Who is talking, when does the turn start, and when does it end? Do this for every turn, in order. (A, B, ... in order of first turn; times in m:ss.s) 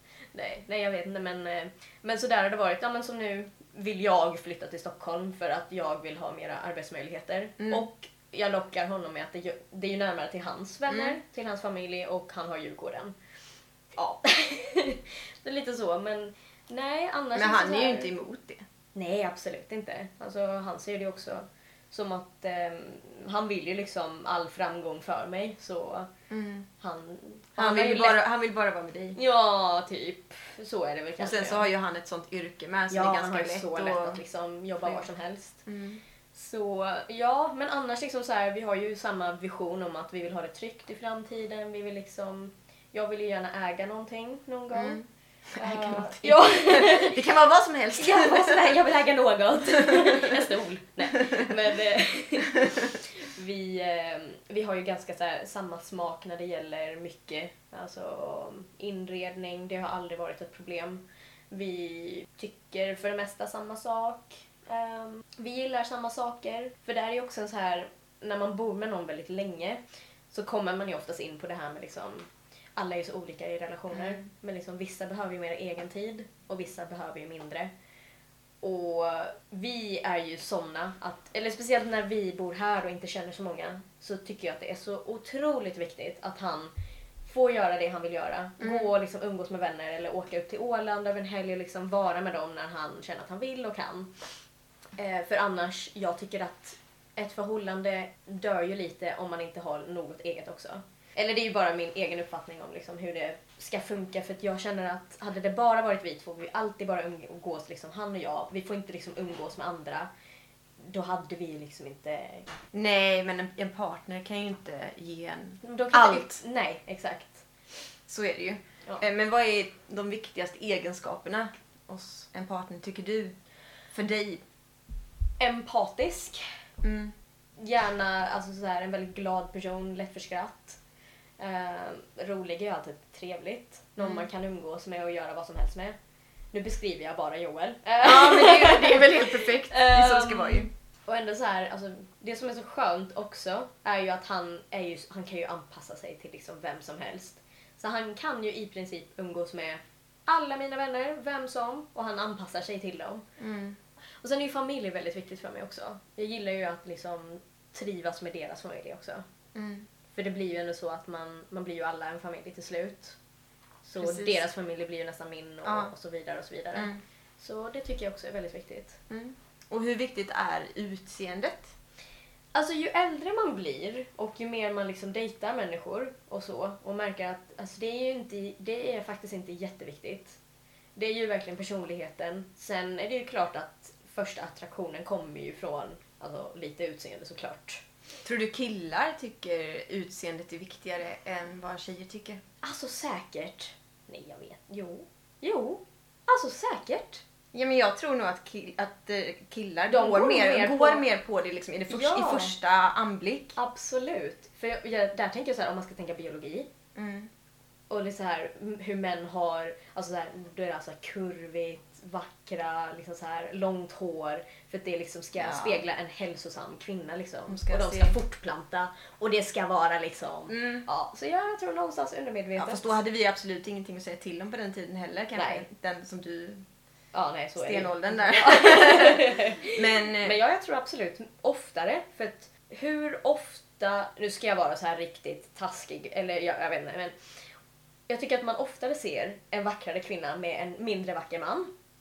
0:00.3-0:13.1 A
0:07.6-0:07.8 B
0:10.9-0:11.2 B
0:14.0-0:18.1 A
0:17.3-0:18.6 B
0:18.9-0:26.1 A
0:26.3-0:26.7 B
0:26.8-0:28.2 A
0:27.6-0:29.2 B
0:29.1-0:31.7 A
0:31.2-0:34.2 B
0:32.9-0:35.6 A
0:35.6-0:36.0 B
0:36.3-0:45.0 A
0:44.7-0:48.8 B
0:45.6-0:47.2 A
0:48.0-1:09.8 A
0:49.8-0:50.4 B
1:10.3-1:17.7 A
1:13.9-1:14.2 B
1:18.6-1:26.7 A
1:27.2-1:34.1 A
1:28.6-1:28.9 B
1:35.0-1:50.1 A
1:50.8-1:52.5 A
1:52.7-1:56.4 B
1:55.6-1:57.4 A
1:58.1-2:03.3 B
2:03.9-2:04.4 B
2:05.4-2:06.4 A
2:06.8-2:07.1 B
2:07.6-2:10.8 A
2:11.4-2:15.9 A
2:14.0-2:14.3 B
2:16.5-2:33.2 A
2:18.0-2:20.7 B
2:33.4-2:33.8 B
2:34.2-2:39.2 A
2:39.5-2:39.8 B
2:40.2-2:43.2 A
2:43.8-2:49.0 A
2:44.0-2:44.4 B
2:45.6-2:45.9 B
2:46.7-2:47.0 B
2:49.1-2:51.7 B
2:52.5-3:00.4 A
3:01.0-3:07.8 A
3:08.2-3:12.4 B
3:12.6-3:17.2 A
3:17.5-3:23.6 B
3:19.9-3:21.0 A
3:21.9-3:22.5 A
3:23.6-3:26.7 A
3:26.9-3:27.3 B
3:27.9-3:42.9 A
3:35.4-3:35.8 B
3:37.5-3:38.2 B
3:40.5-3:40.8 B
3:42.6-3:46.6 B
3:45.3-3:45.6 A
3:47.1-3:57.1 A
3:47.6-3:50.4 B
3:58.1-4:01.7 A